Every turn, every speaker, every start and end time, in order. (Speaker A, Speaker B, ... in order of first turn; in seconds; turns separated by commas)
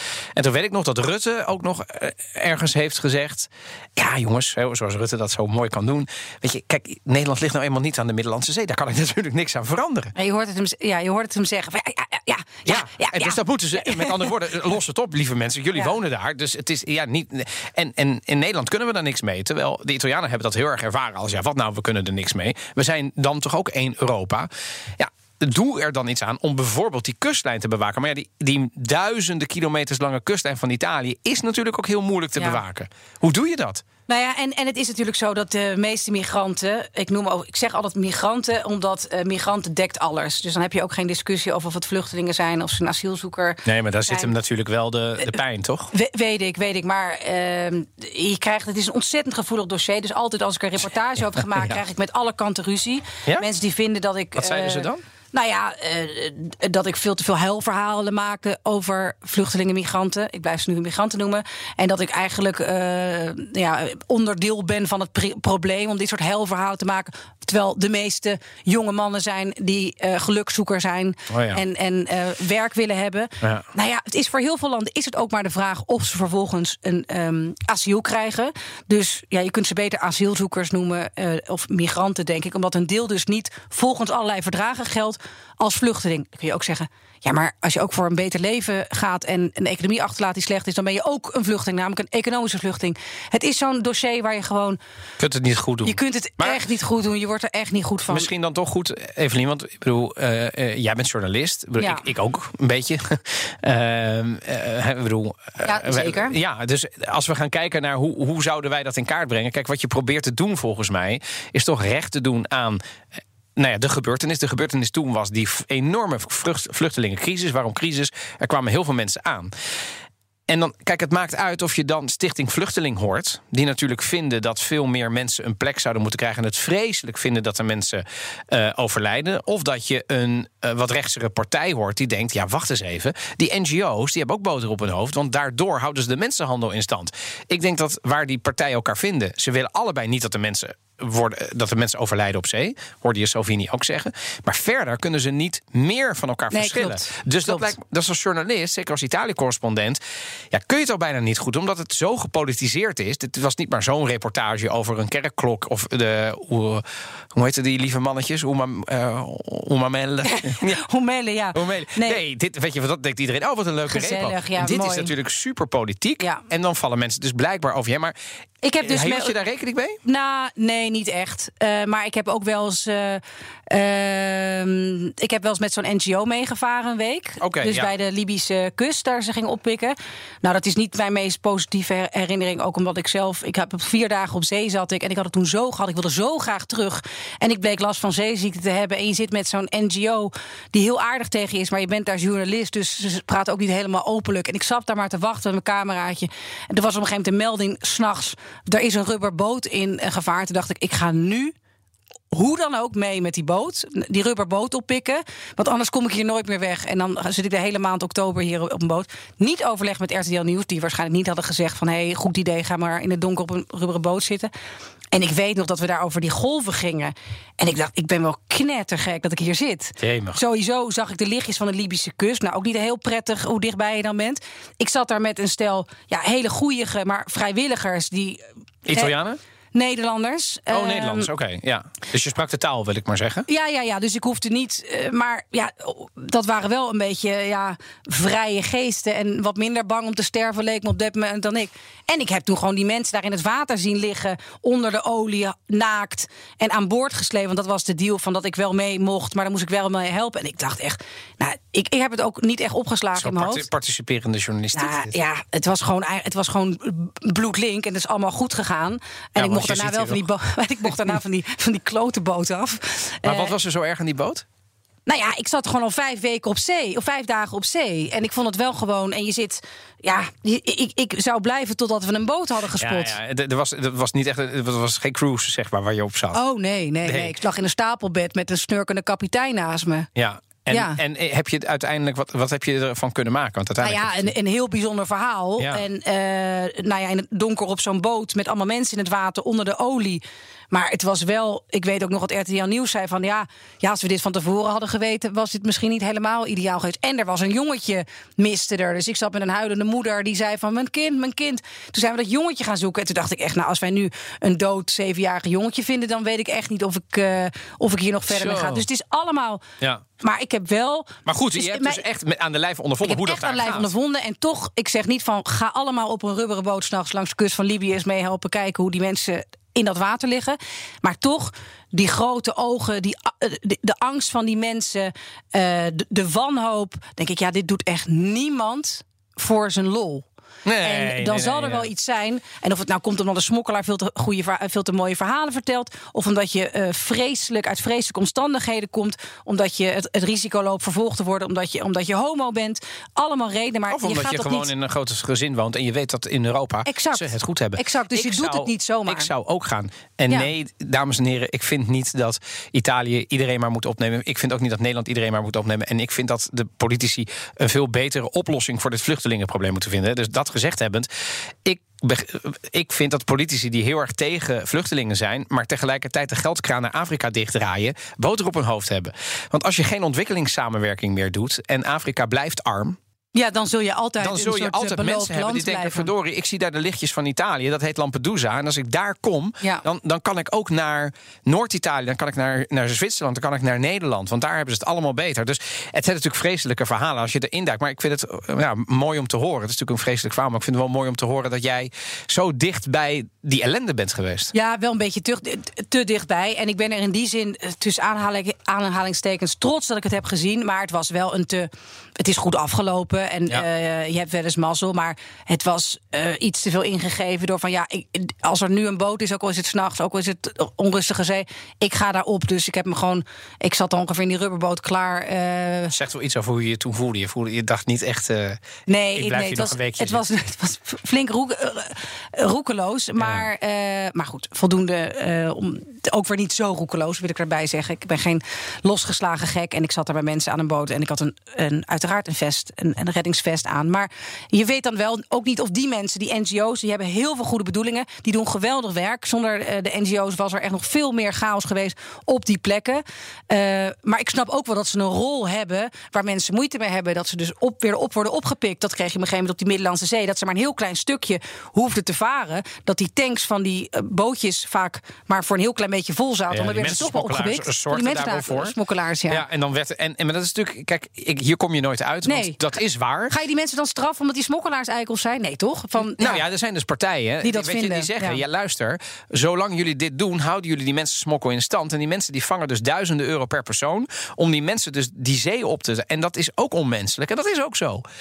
Speaker A: 0.4-10.1, Speaker B: 10.2-14.3, Speaker A: 12.7-33.8, Speaker B: 34.1-44.3, Speaker A: 43.7-45.9, Speaker B: 45.9-94.8, Speaker A: 54.4-55.0, Speaker A: 71.3-71.6, Speaker A: 95.2-96.6, Speaker B: 95.8-98.3, Speaker A: 98.1-112.8, Speaker B: 105.6-106.4, Speaker A: 113.6-119.5, Speaker A: 120.5-150.0, Speaker B: 146.5-147.7, Speaker A: 150.5-160.8, Speaker B: 160.2-162.2, Speaker A: 161.6-168.2, Speaker B: 163.9-165.1, Speaker B: 168.6-169.3, Speaker A: 168.8-170.0, Speaker B: 170.1-201.5, Speaker A: 177.4-177.9, Speaker B: 202.3-214.5, Speaker B: 215.1-229.2, Speaker A: 220.0-220.4, Speaker A: 228.9-229.4, Speaker B: 229.7-231.3, Speaker A: 230.7-233.4, Speaker B: 233.5-253.6, Speaker A: 253.2-255.2, Speaker B: 254.7-263.5, Speaker A: 259.4-260.2, Speaker A: 263.2-264.4, Speaker B: 265.1-273.1, Speaker A: 272.8-276.4, Speaker B: 276.3-280.1, Speaker A: 277.1-277.3, Speaker A: 280.2-284.3, Speaker B: 280.7-281.0, Speaker B: 283.8-309.6, Speaker A: 308.3-308.8, Speaker B: 310.2-312.0, Speaker A: 311.3-313.9, Speaker B: 313.0-330.3, Speaker A: 330.6-331.9, Speaker B: 330.8-344.7, Speaker A: 343.9-361.1, Speaker B: 346.9-349.3, Speaker A: 361.6-373.0, Speaker B: 373.4-376.1, Speaker A: 374.2-394.5, Speaker B: 394.5-415.9, Speaker A: 415.9-418.6, Speaker B: 418.9-459.4, Speaker A: 419.1-420.2, Speaker A: 423.2-423.5, Speaker A: 456.5-458.7, Speaker A: 459.3-463.4, Speaker B: 462.2-462.6, Speaker B: 463.3-466.4, Speaker A: 466.2-478.0, Speaker B: 467.4-468.4